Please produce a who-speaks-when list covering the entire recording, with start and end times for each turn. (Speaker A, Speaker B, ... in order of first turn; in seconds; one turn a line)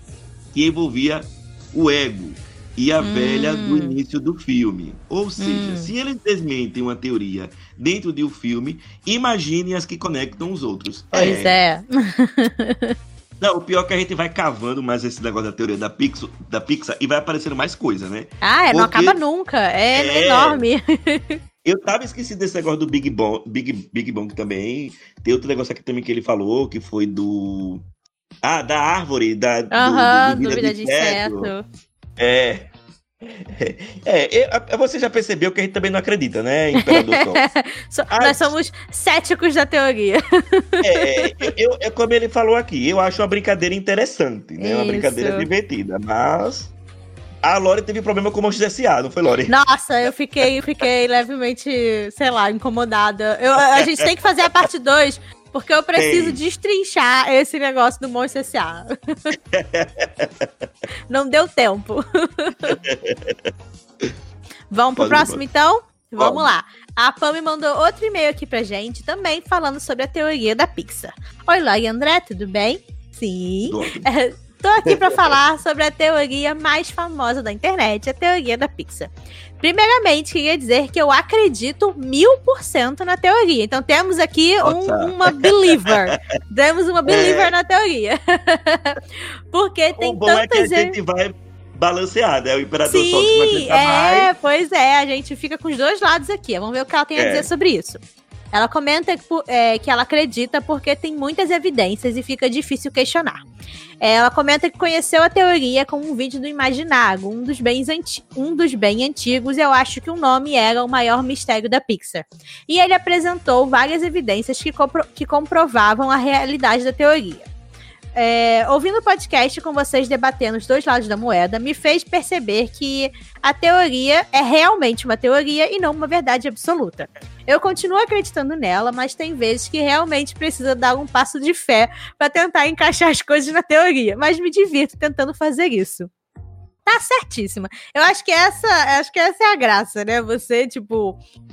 Speaker A: 0.5-11.5
Speaker B: 3.0-4.0
Speaker B: 5.4-5.9
Speaker B: 11.1-12.9
Speaker A: 13.4-19.2
Speaker B: 18.4-21.4
Speaker A: 19.9-20.6
Speaker A: 21.6-27.8
Speaker A: 28.4-31.5
Speaker B: 29.7-31.6
Speaker A: 32.2-32.7
Speaker A: 33.3-37.4
Speaker B: 36.8-41.4
Speaker A: 38.1-38.5
Speaker A: 40.8-46.7
Speaker B: 44.6-45.5
Speaker A: 47.4-49.5
Speaker B: 49.5-59.4
Speaker A: 56.0-56.4
Speaker A: 59.5-60.5
Speaker B: 61.1-62.8
Speaker A: 62.7-63.4
Speaker B: 64.7-89.0
Speaker A: 65.0-65.4
Speaker A: 66.2-66.5
Speaker A: 73.6-74.1
Speaker A: 74.8-75.3
Speaker A: 84.6-86.1
Speaker A: 87.0-87.5
Speaker B: 89.5-91.0
Speaker A: 90.0-94.3
Speaker B: 92.9-98.0
Speaker A: 97.1-97.5
Speaker B: 98.5-103.4
Speaker B: 104.0-117.5
Speaker B: 118.1-136.1
Speaker B: 136.8-141.2